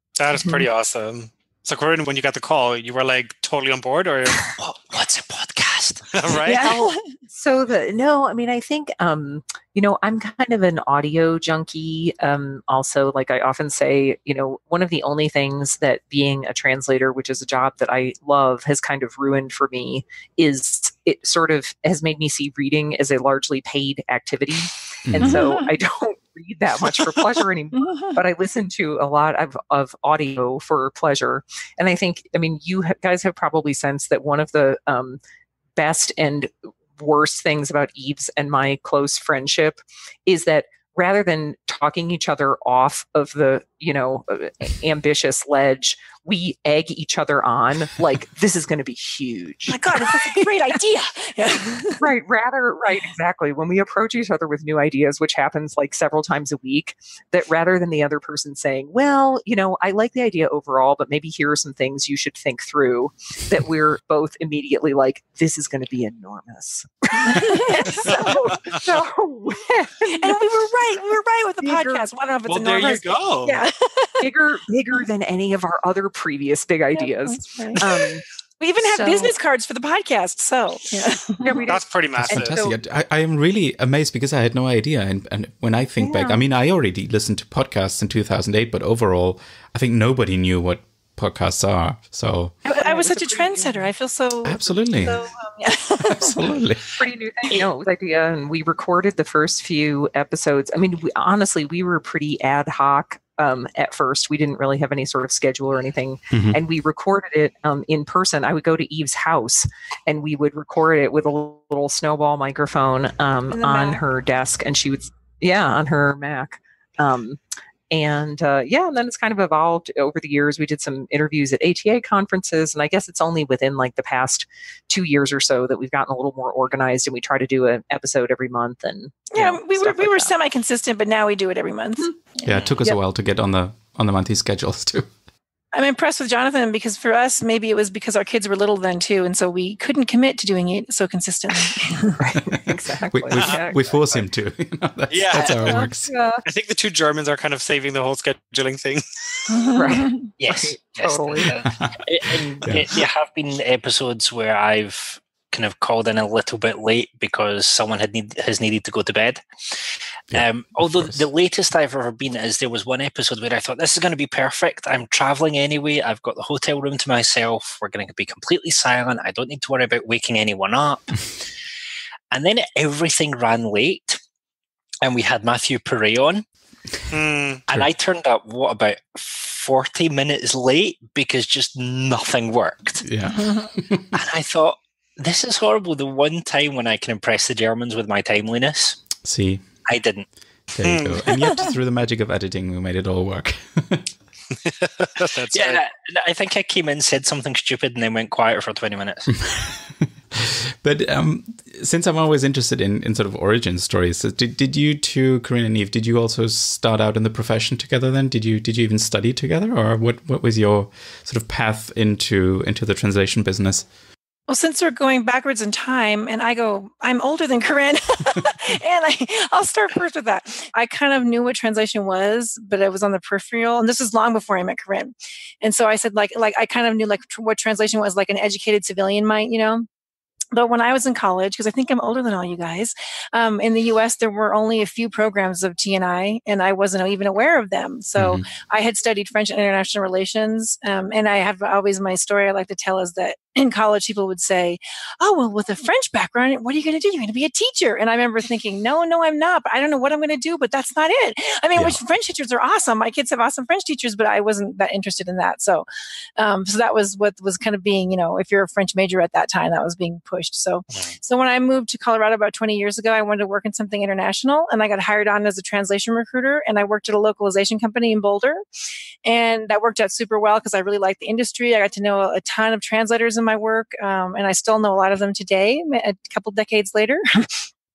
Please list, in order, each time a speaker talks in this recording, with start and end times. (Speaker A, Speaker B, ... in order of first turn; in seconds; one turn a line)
Speaker A: 0.2-4.5
Speaker B: 4.6-6.1
Speaker A: 6.1-6.6
Speaker C: 6.4-35.2
Speaker D: 6.6-7.0
Speaker E: 25.1-25.4
Speaker D: 25.2-25.7
Speaker D: 27.8-28.2
Speaker C: 35.8-50.5
Speaker D: 49.7-52.0
Speaker C: 52.0-70.4
Speaker D: 67.2-68.5
Speaker D: 70.1-74.2
Speaker C: 71.6-72.1
Speaker A: 72.5-73.6
Speaker C: 74.2-78.2
Speaker D: 77.0-78.0
Speaker D: 78.6-81.7
Speaker C: 78.8-79.3
Speaker C: 81.4-82.7
Speaker A: 81.7-82.6
Speaker E: 82.1-92.5
Speaker C: 86.0-86.4
Speaker D: 92.6-96.5
Speaker C: 92.8-93.9
Speaker E: 94.4-95.2
Speaker E: 96.0-96.9
Speaker C: 97.0-117.4
Speaker E: 106.3-106.6
Speaker D: 113.5-114.0
Speaker C: 117.9-130.3
Speaker D: 129.3-133.0
Speaker E: 132.4-135.1
Speaker D: 135.7-142.2
Speaker C: 142.2-144.2
Speaker E: 142.6-146.1
Speaker A: 143.3-143.6
Speaker A: 145.1-145.9
Speaker C: 145.4-146.4
Speaker A: 146.4-149.5
Speaker D: 149.5-150.3
Speaker C: 149.7-151.5
Speaker B: 150.4-171.4
Speaker E: 152.6-152.9
Speaker E: 160.3-161.2
Speaker B: 172.3-174.2
Speaker B: 175.0-176.4
Speaker A: 177.1-177.6
Speaker B: 177.7-183.1
Speaker E: 183.0-184.1
Speaker D: 183.4-183.7
Speaker B: 184.1-189.1
Speaker E: 189.2-189.7
Speaker B: 189.8-190.3
Speaker E: 190.7-194.1
Speaker A: 190.8-191.2
Speaker D: 191.3-191.7
Speaker A: 195.2-195.8
Speaker B: 195.5-199.3
Speaker E: 199.4-213.8
Speaker D: 214.5-229.9
Speaker D: 230.5-255.8
Speaker E: 238.2-238.4
Speaker D: 256.4-268.6
Speaker B: 260.9-261.1
Speaker D: 269.2-277.6